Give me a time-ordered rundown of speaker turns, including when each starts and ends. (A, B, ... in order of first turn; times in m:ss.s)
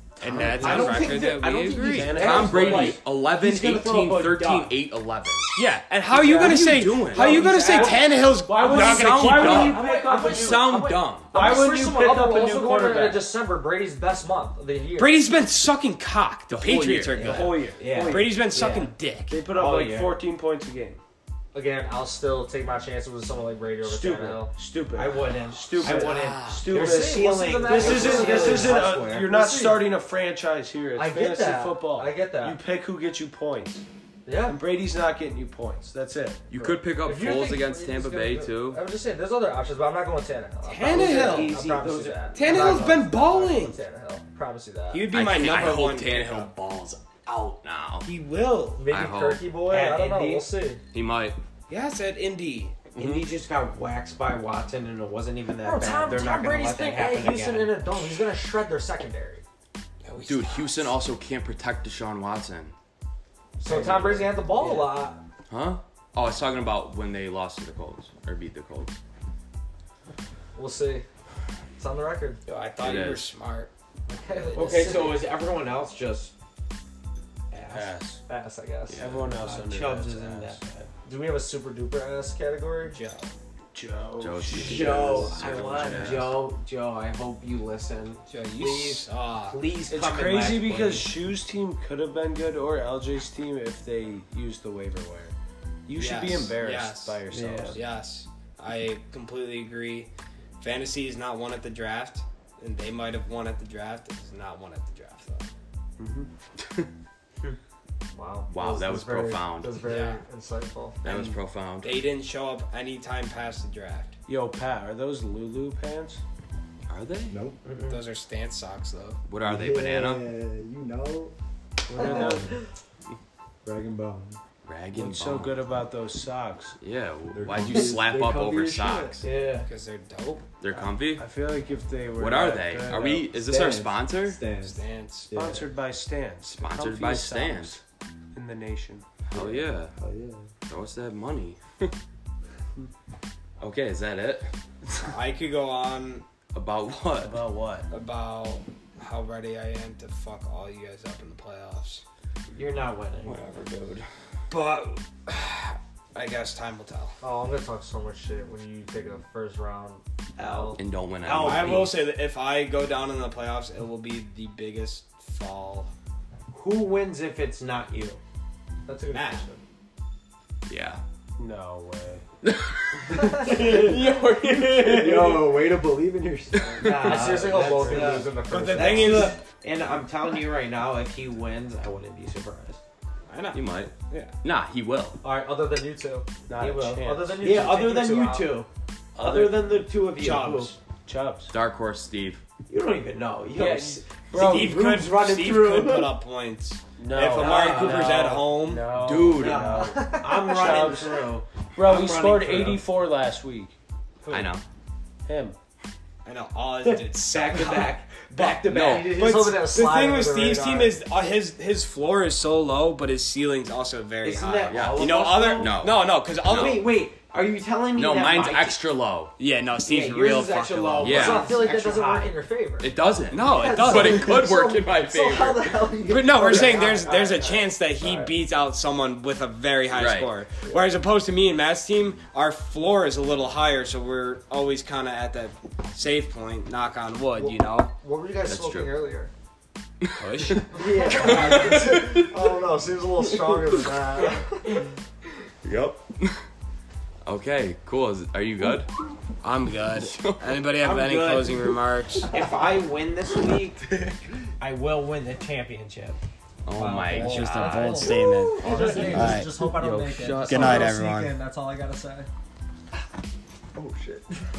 0:00.2-0:02.4 A
0:00.3-0:04.8 B
0:00.3-0:01.0 C
0:01.8-0:05.6 D
0:01.9-0:03.0 C
0:05.6-0:09.8 A
0:06.2-0:13.2 B
0:06.2-0:08.0 D
0:07.2-0:08.1 E
0:08.7-0:11.3 D
0:09.4-0:15.2 E
0:11.3-0:13.2 C
0:15.0-0:19.4 A
0:16.5-0:17.3 D
0:17.1-0:18.9 B
0:17.2-0:21.0 C
0:19.5-0:20.2 B
0:21.5-0:24.5 E
0:23.8-0:33.8 C
0:24.9-0:29.3 B
0:25.8-0:26.7 D
0:26.7-0:29.9 E
0:31.0-0:32.6 E
0:34.2-0:34.6 E
0:34.4-0:36.8 C
0:36.5-0:38.8 D
0:37.0-0:45.1 E
0:40.6-0:41.6 A
0:40.9-0:42.9 B
0:42.3-0:43.8 A
0:44.9-0:46.5 A
0:45.1-0:48.1 D
0:48.0-0:48.8 A
0:48.8-0:50.8 E
0:48.8-0:49.4 D
0:49.7-0:50.5 B
0:50.9-0:51.4 D
0:51.7-0:52.9 A
0:53.0-0:57.8 B
0:53.0-0:53.3 D
0:55.6-0:59.4 E
1:00.0-1:00.9 A
1:00.2-1:02.7 D
1:03.6-1:04.3 C
1:03.6-1:05.2 E
1:03.7-1:05.0 B
1:05.5-1:09.0 D
1:10.6-1:11.0 E
1:11.8-1:12.4 E
1:12.5-1:13.7 A
1:12.8-1:13.3 D
1:14.1-1:15.2 E
1:14.3-1:15.0 A
1:14.5-1:16.3 B
1:17.5-1:17.9 B
1:17.7-1:18.2 C
1:18.3-1:19.1 E
1:18.9-1:19.2 D
1:19.0-1:20.9 C
1:19.4-1:20.6 B
1:21.0-1:23.0 E
1:22.8-1:23.3 A
1:23.7-1:26.4 C
1:24.2-1:26.3 D
1:24.5-1:31.2 B
1:28.3-1:29.6 A
1:29.9-1:35.4 C
1:35.9-1:37.8 C
1:36.0-1:37.2 A
1:37.3-1:37.8 B
1:37.7-1:45.5 A
1:46.0-1:46.3 C
1:46.6-1:46.9 D
1:48.1-1:51.0 E
1:48.5-1:49.9 D
1:49.8-1:50.2 A
1:51.0-1:51.9 D
1:51.0-1:54.1 A
1:54.3-1:56.2 C
1:56.9-1:57.4 D
1:57.3-1:57.6 F
1:57.6-1:58.0 B
1:57.8-1:59.2 A
1:59.3-2:00.3 D
1:59.4-2:01.3 F
2:01.9-2:02.5 C
2:02.0-2:02.6 F
2:02.0-2:02.3 E
2:03.6-2:04.4 F
2:04.6-2:05.6 D
2:04.9-2:06.8 C
2:06.8-2:09.2 D
2:07.3-2:09.3 F
2:09.2-2:09.7 B
2:09.6-2:10.5 A
2:10.6-2:11.3 D
2:11.1-2:13.3 C
2:12.2-2:14.5 D
2:12.9-2:15.7 F
2:14.6-2:15.3 A
2:15.3-2:17.8 C
2:16.5-2:17.8 D
2:18.3-2:19.1 C
2:19.3-2:20.0 D
2:19.3-2:20.5 F
2:20.7-2:21.9 D
2:23.6-2:24.5 D
2:25.0-2:26.2 A
2:26.5-2:27.4 D
2:27.2-2:27.9 C
2:27.9-2:32.0 A
2:32.5-2:33.4 B
2:33.3-2:33.9 A
2:33.4-2:34.1 D
2:34.5-2:37.2 A
2:37.2-2:40.8 E
2:40.4-2:41.9 B
2:40.8-2:42.0 D
2:41.4-2:45.9 A
2:46.5-2:48.2 B
2:48.9-2:49.6 E
2:49.1-2:49.4 A
2:50.7-2:51.0 D
2:51.4-2:52.2 C
2:52.4-2:55.1 D
2:53.5-2:58.3 F
2:55.2-2:55.6 C
2:56.8-3:02.8 B
2:56.9-2:59.3 E
2:57.8-2:58.0 C
2:58.4-2:59.4 A
3:03.3-3:04.3 A
3:03.5-3:05.2 D
3:05.2-3:06.3 E
3:06.5-3:07.5 C
3:06.6-3:10.7 B
3:06.9-3:08.6 E
3:09.2-3:11.5 C
3:11.5-3:12.4 D
3:12.7-3:16.2 B
3:13.6-3:18.9 A
3:17.0-3:23.8 C
3:17.2-3:22.8 B
3:18.9-3:19.8 D
3:19.8-3:20.5 E
3:24.2-3:24.5 B
3:24.3-3:24.6 D
3:25.3-3:25.6 C
3:26.2-3:28.6 A
3:26.8-3:29.2 B
3:28.6-3:29.2 D
3:28.7-3:31.0 E
3:29.1-3:36.9 A
3:34.2-3:35.8 B
3:34.7-3:36.9 D
3:36.4-3:38.8 B
3:37.9-3:39.3 D
3:39.4-3:41.4 A
3:39.9-3:42.4 B
3:41.0-3:41.5 D
3:41.1-3:48.3 E
3:42.8-3:46.0 D
3:43.3-3:44.5 A
3:46.1-3:57.9 A
3:49.9-3:50.4 D
3:50.6-3:50.9 E
3:57.4-3:59.3 E
3:58.4-3:59.0 D
4:00.0-4:02.5 D
4:00.2-4:00.7 A
4:00.7-4:04.8 E
4:05.6-4:06.4 D
4:07.2-4:08.9 D
4:09.4-4:12.3 A
4:09.9-4:10.5 D
4:10.8-4:13.9 B
4:14.6-4:16.2 B
4:16.6-4:18.5 D
4:16.8-4:22.3 E
4:17.1-4:19.6 A
4:18.6-4:19.4 B
4:18.7-4:19.3 F
4:19.1-4:21.0 D
4:20.4-4:21.4 A
4:23.8-4:24.2 E